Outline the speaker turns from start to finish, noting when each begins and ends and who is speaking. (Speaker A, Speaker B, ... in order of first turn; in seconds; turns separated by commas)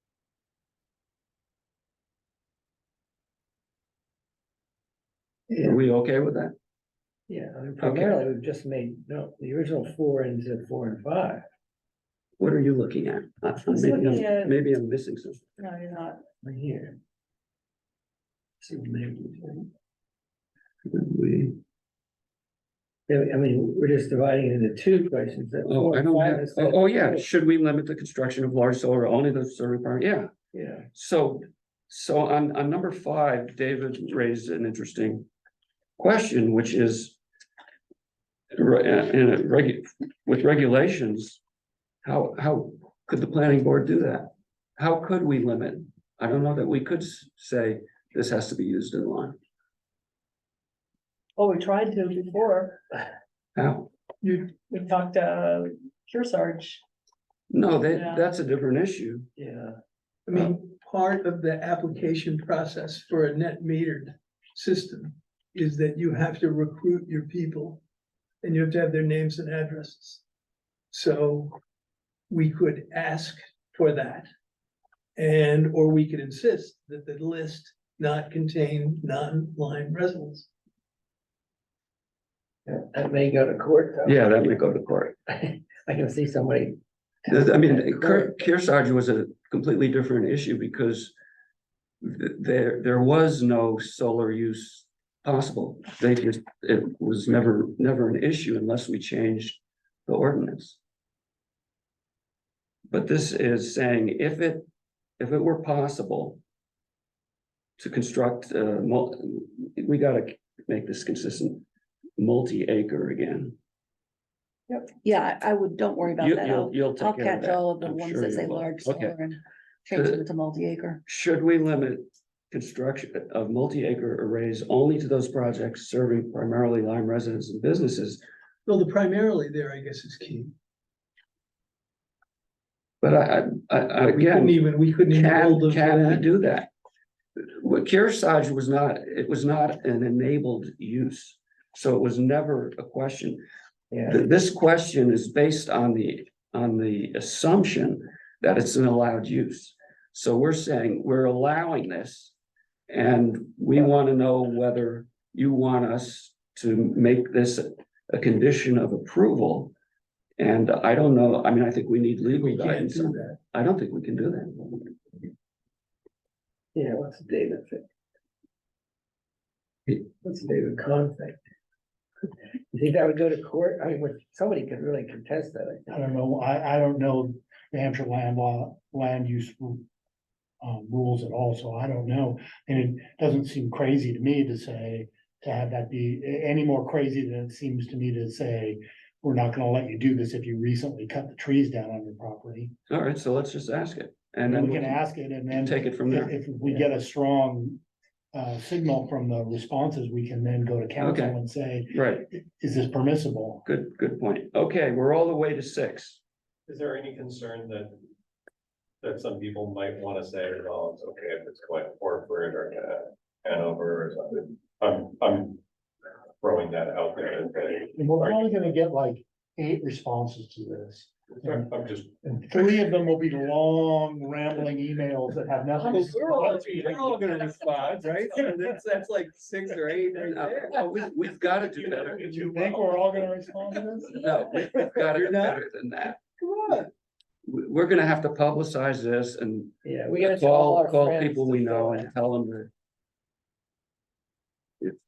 Speaker A: 5.6-6.5, Speaker B: 7.3-11.4, Speaker A: 7.8-8.2, Speaker A: 12.4-15.4, Speaker C: 13.7-14.6, Speaker C: 15.8-16.1, Speaker B: 16.4-16.9, Speaker B: 18.6-19.7, Speaker A: 20.9-21.6, Speaker B: 23.1-27.2, Speaker A: 25.6-30.3, Speaker B: 30.5-30.9, Speaker A: 30.9-35.3, Speaker A: 36.0-37.2, Speaker A: 38.5-41.4, Speaker A: 42.0-49.4, Speaker C: 51.4-52.8, Speaker A: 53.6-53.9, Speaker C: 54.2-56.8, Speaker A: 57.5-59.3, Speaker C: 57.9-58.2, Speaker B: 59.4-59.7, Speaker D: 60.3-67.8, Speaker D: 68.4-70.2, Speaker D: 70.9-71.6, Speaker D: 72.3-74.3, Speaker D: 75.2-80.5, Speaker B: 82.7-84.5, Speaker A: 84.0-85.2, Speaker B: 85.3-86.8, Speaker A: 87.3-91.1, Speaker B: 87.3-88.3, Speaker A: 92.0-100.8, Speaker A: 102.9-104.7, Speaker A: 105.2-106.4, Speaker A: 107.8-111.6, Speaker A: 112.2-113.6, Speaker E: 114.9-121.0, Speaker A: 116.2-119.2, Speaker A: 119.9-120.2, Speaker A: 121.1-128.2, Speaker D: 128.7-130.5, Speaker A: 133.0-136.7, Speaker D: 134.0-136.3, Speaker A: 137.4-143.4, Speaker B: 143.9-144.2, Speaker A: 144.1-152.3, Speaker A: 152.9-159.7, Speaker A: 160.4-165.0, Speaker D: 162.3-163.4, Speaker B: 166.8-167.8, Speaker B: 169.9-171.4, Speaker B: 172.7-175.9, Speaker F: 175.9-179.8, Speaker F: 180.6-192.7, Speaker A: 192.9-196.4, Speaker F: 194.5-197.8, Speaker F: 198.3-203.7, Speaker A: 201.0-201.4, Speaker A: 201.9-202.3, Speaker A: 203.7-206.2, Speaker G: 206.7-208.0, Speaker G: 209.0-215.6, Speaker G: 216.4-218.4, Speaker F: 217.9-221.7, Speaker G: 221.4-222.2, Speaker F: 222.3-227.2, Speaker D: 225.9-228.3, Speaker G: 225.9-228.9, Speaker D: 229.0-230.5, Speaker G: 229.5-230.6, Speaker A: 230.2-232.3, Speaker G: 231.6-233.3, Speaker F: 232.2-234.4, Speaker A: 234.2-236.2, Speaker B: 236.4-236.8, Speaker A: 237.5-242.7, Speaker B: 239.8-242.1